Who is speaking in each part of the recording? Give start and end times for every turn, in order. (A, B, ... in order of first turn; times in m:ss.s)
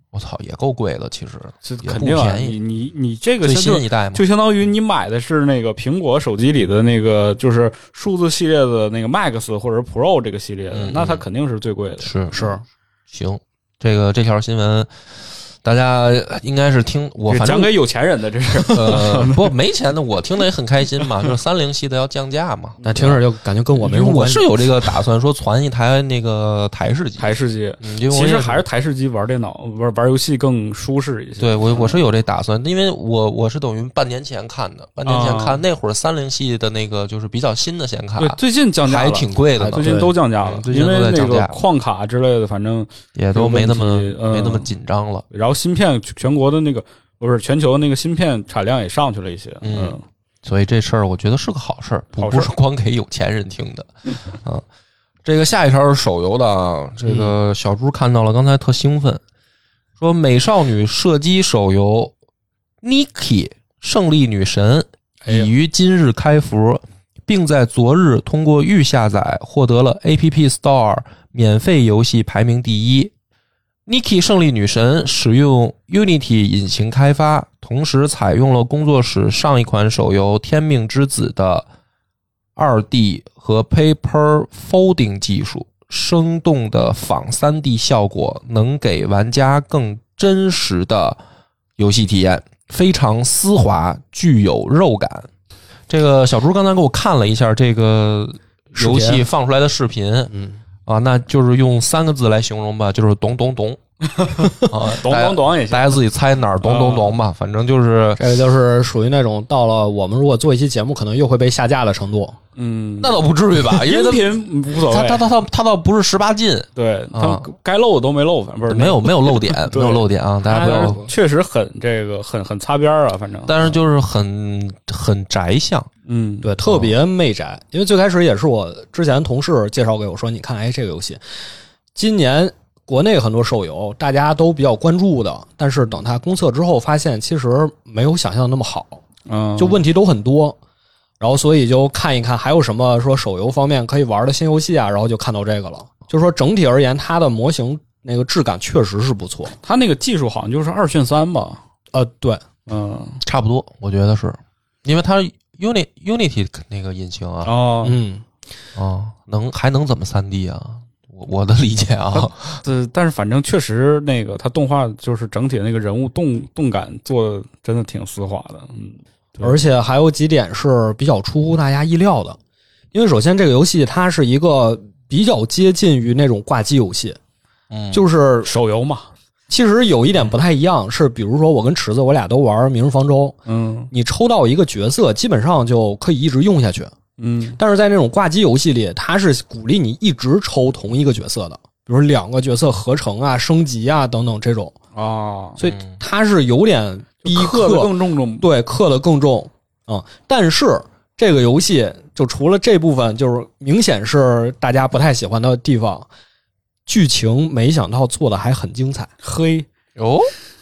0:00.1-0:02.6 A
0:01.6-0:12.5 B
0:03.4-0:04.2 A
0:10.7-0:11.2 A
0:12.0-0:12.4 A
0:12.3-0:12.6 C
0:13.1-0:14.9 A
0:15.6-0:17.7 A
0:17.3-0:19.5 B
0:18.6-0:23.2 A
0:22.8-0:23.1 B
0:22.8-0:24.6 C
0:23.7-0:28.6 A
0:27.2-0:32.0 B
0:31.4-0:41.6 A
0:35.1-0:35.6 B
0:38.2-0:44.7 B
0:39.6-0:40.1 C
0:43.2-0:45.2 A
0:45.3-0:50.0 B
0:49.6-0:54.6 A
0:52.2-0:52.5 B
0:55.2-0:59.2 A
1:00.0-1:02.1 A
1:02.8-1:13.1 A
1:13.9-1:21.6 A
1:22.6-1:31.2 A
1:31.8-1:35.3 A
1:35.9-1:40.3 A
1:38.8-1:39.2 C
1:40.3-1:40.6 C
1:40.9-1:43.8 A
1:44.1-1:46.0 B
1:44.6-1:48.2 A
1:46.6-1:47.2 B
1:48.2-1:52.4 C
1:52.6-1:55.3 B
1:53.0-1:57.4 A
1:56.8-2:03.6 B
1:58.7-2:01.0 A
2:00.5-2:01.1 C
2:03.4-2:05.9 A
2:06.1-2:06.5 B
2:06.4-2:11.2 C
2:06.6-2:06.9 A
2:11.9-2:19.0 C
2:19.2-2:19.8 B
2:19.6-2:20.6 C
2:21.2-2:29.5 C
2:29.6-2:31.6 B
2:31.9-2:32.4 C
2:32.7-2:33.2 B
2:33.2-2:37.5 A
2:37.4-2:38.0 B
2:37.8-2:38.2 C
2:38.8-2:42.6 A
2:42.1-2:49.6 B
2:49.4-2:52.4 C
2:52.9-2:57.2 C
2:57.7-2:58.0 A
2:57.9-2:58.5 C
2:58.4-2:59.1 B
2:59.5-3:03.4 C
3:03.4-3:03.9 B
3:03.9-3:06.9 C
3:07.2-3:07.6 B
3:07.6-3:14.7 C
3:14.9-3:15.6 B
3:15.6-3:26.1 C
3:15.6-3:15.9 A
3:17.2-3:18.5 B
3:26.9-3:29.1 C
3:29.2-3:29.7 B
3:30.0-3:30.3 A